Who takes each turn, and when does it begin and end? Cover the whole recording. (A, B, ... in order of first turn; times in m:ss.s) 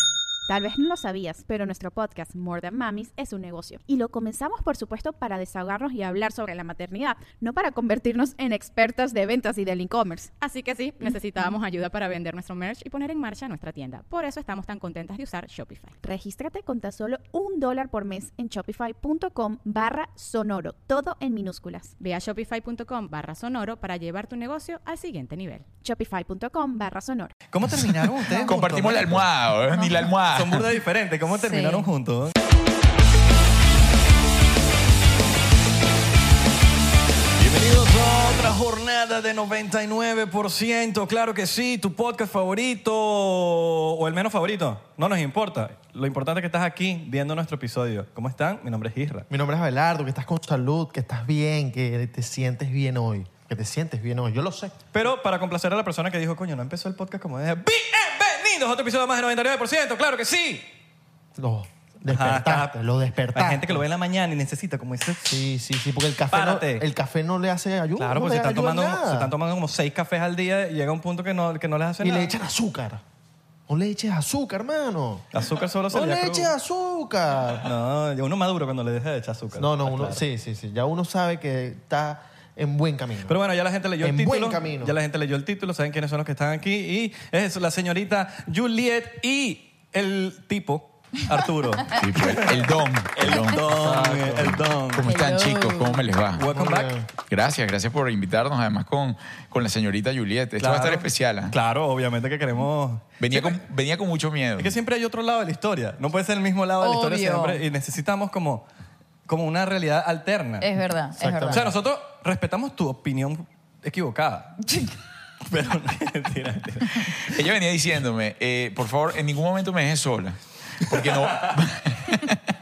0:00.5-0:10.3 A
0:10.4-0:16.0 B
0:16.0-0:22.0 A
0:22.0-0:25.6 B
0:25.8-0:27.3 A
0:27.5-0:29.3 C
0:28.4-0:30.7 D
0:30.3-0:32.3 C
0:31.4-0:31.9 E
0:37.4-0:49.3 C
0:49.3-0:54.8 F
0:54.9-1:00.7 C
1:01.4-1:03.8 F
1:02.1-1:02.8 C
1:03.3-1:05.4 C
1:05.2-1:09.3 F
1:06.3-1:06.8 C
1:08.0-1:12.3 C
1:12.0-1:13.0 F
1:13.7-1:15.2 F
1:15.3-1:16.5 C
1:15.9-1:17.7 F
1:17.6-1:20.2 C
1:19.6-1:23.4 F
1:23.3-1:35.1 C
1:24.0-1:25.0 F
1:31.9-1:33.8 D
1:33.8-1:34.6 F
1:34.4-1:36.5 D
1:35.0-1:36.0 E
1:36.4-1:37.0 C
1:36.5-1:37.1 F
1:37.2-1:41.6 D
1:40.6-1:43.6 C
1:43.2-1:44.8 D
1:44.6-1:48.6 C
1:46.8-1:47.6 E
1:49.3-1:50.7 C
1:50.6-1:51.7 E
1:51.2-1:51.8 F
1:51.5-1:54.6 C
1:55.5-1:57.1 C
1:57.2-2:02.4 D